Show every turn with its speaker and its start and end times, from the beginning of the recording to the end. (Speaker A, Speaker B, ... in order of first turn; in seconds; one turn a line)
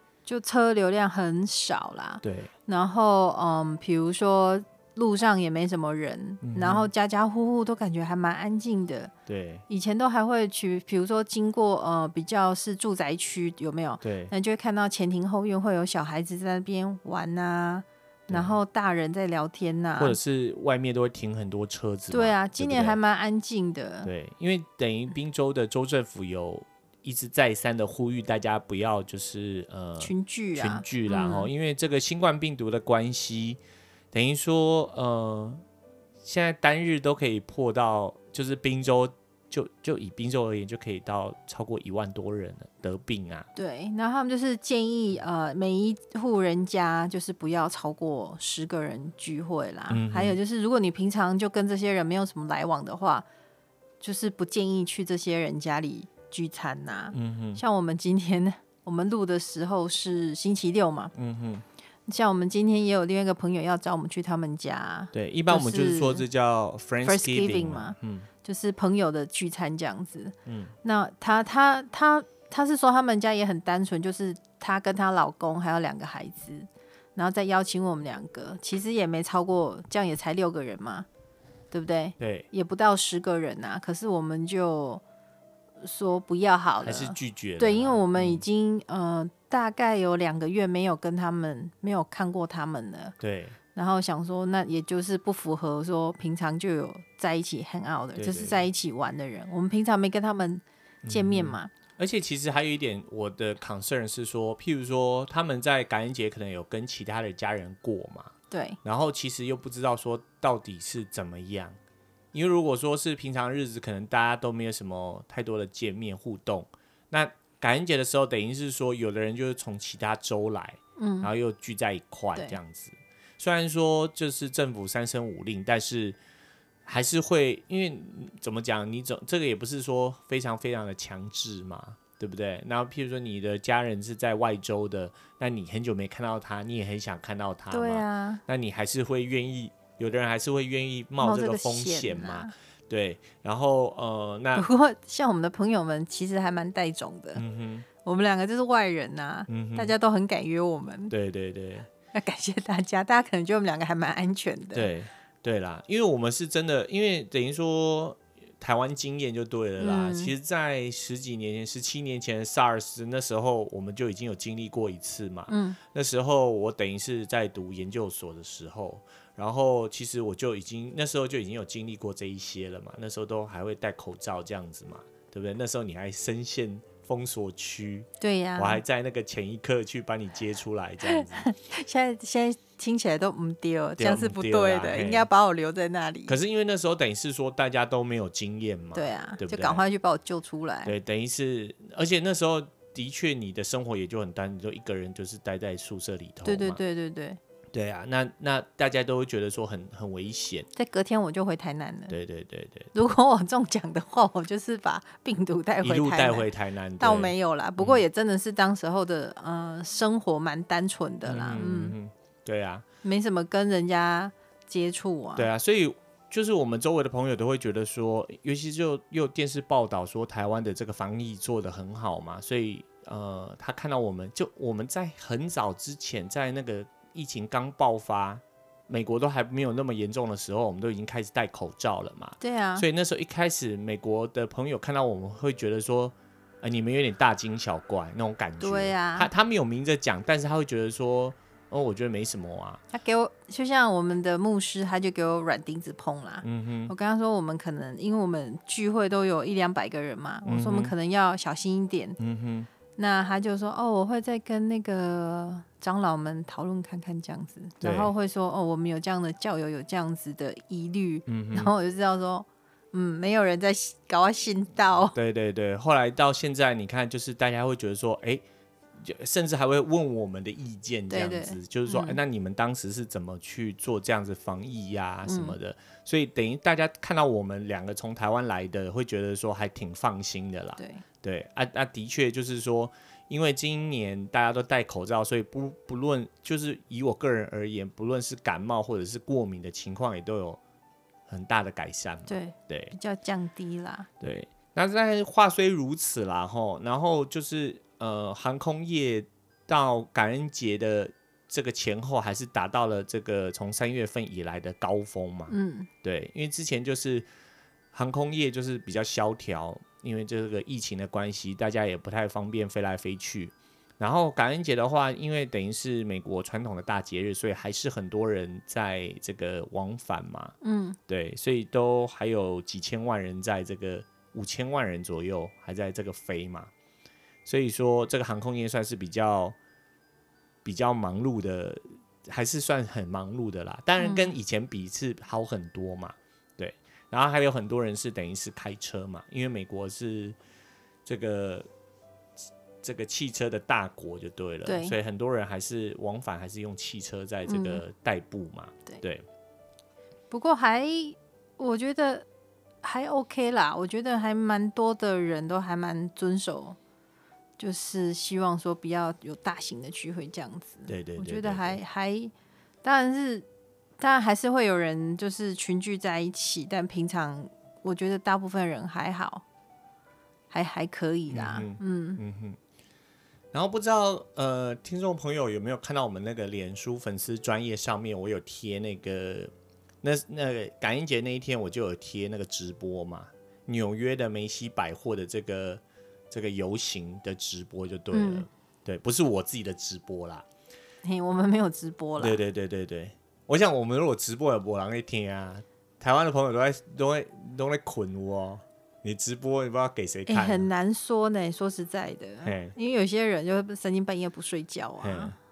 Speaker A: 0.2-9.1
Speaker B: 2.2-2.5
Speaker B: 6.4-6.9
Speaker B: 9.2-9.6
Speaker A: 9.7-20.2
Speaker B: 14.0-14.3
Speaker B: 18.3-18.6
Speaker B: 20.0-23.0
Speaker A: 22.1-24.1
Speaker B: 24.0-33.6
Speaker A: 30.0-31.5
Speaker B: 34.1-35.6
Speaker B: 36.2-43.5
Speaker A: 43.5-53.2
Speaker B: 49.9-50.4
Speaker A: 54.0-61.1
Speaker B: 57.1-57.6
Speaker B: 61.1-61.6
Speaker A: 62.1-66.2
Speaker B: 65.1-68.3
Speaker A: 67.0-81.0
Speaker B: 70.5-70.7
Speaker A: 81.7-85.0
Speaker B: 82.2-82.5
Speaker A: 85.8-93.2
Speaker B: 86.8-88.5
Speaker B: 93.2-93.6
Speaker A: 93.7-101.7
Speaker B: 98.2-98.6
Speaker B: 101.0-111.8
Speaker A: 108.5-108.8
Speaker B: 112.3-126.2
Speaker A: 121.0-121.3
Speaker B: 126.8-144.7
Speaker A: 137.7-138.4
Speaker A: 141.2-142.5
Speaker A: 144.6-147.4
Speaker B: 147.4-147.9
Speaker A: 148.0-151.1
Speaker B: 149.5-149.9
Speaker B: 151.1-151.9
Speaker A: 152.1-154.9
Speaker B: 154.7-181.5
Speaker A: 159.8-160.3
Speaker A: 165.5-165.8
Speaker A: 178.2-178.8
Speaker A: 181.1-186.4
Speaker B: 184.0-185.3
Speaker B: 186.3-189.8
Speaker A: 188.9-190.9
Speaker B: 190.8-196.8
Speaker A: 196.4-197.4
Speaker B: 197.7-200.7
Speaker A: 200.8-202.2
Speaker B: 202.1-202.9
Speaker A: 202.9-211.9
Speaker B: 205.8-208.0
Speaker B: 211.2-212.9
Speaker A: 213.0-215.5
Speaker B: 215.4-242.8
Speaker A: 232.4-232.8
Speaker A: 238.6-239.3
Speaker A: 242.9-252.2
Speaker B: 246.4-246.9
Speaker B: 250.4-250.9
Speaker B: 252.2-252.7
Speaker A: 252.9-265.1
Speaker B: 257.8-258.1
Speaker B: 261.3-261.7
Speaker B: 265.1-268.4
Speaker B: 269.0-290.6
Speaker A: 271.1-272.2
Speaker A: 275.2-275.6
Speaker A: 280.8-281.0
Speaker B: 291.3-292.9
Speaker A: 292.3-294.1
Speaker B: 294.2-307.3
Speaker A: 305.5-305.9
Speaker B: 307.9-320.5
Speaker A: 320.6-321.0
Speaker B: 321.1-326.7
Speaker B: 327.4-329.6
Speaker B: 330.6-340.4
Speaker A: 334.0-334.4
Speaker B: 341.1-341.7
Speaker B: 342.8-349.2
Speaker A: 344.7-344.9
Speaker A: 347.4-347.8
Speaker A: 350.3-352.2
Speaker A: 352.8-356.8
Speaker A: 357.6-362.3
Speaker B: 360.9-361.8
Speaker A: 362.8-363.4
Speaker A: 364.0-369.4
Speaker A: 370.5-372.2
Speaker B: 371.3-372.6
Speaker B: 373.5-390.4
Speaker A: 388.1-388.4
Speaker A: 391.0-392.4
Speaker B: 392.2-400.7
Speaker A: 400.3-405.4
Speaker B: 402.4-402.8
Speaker B: 405.0-405.3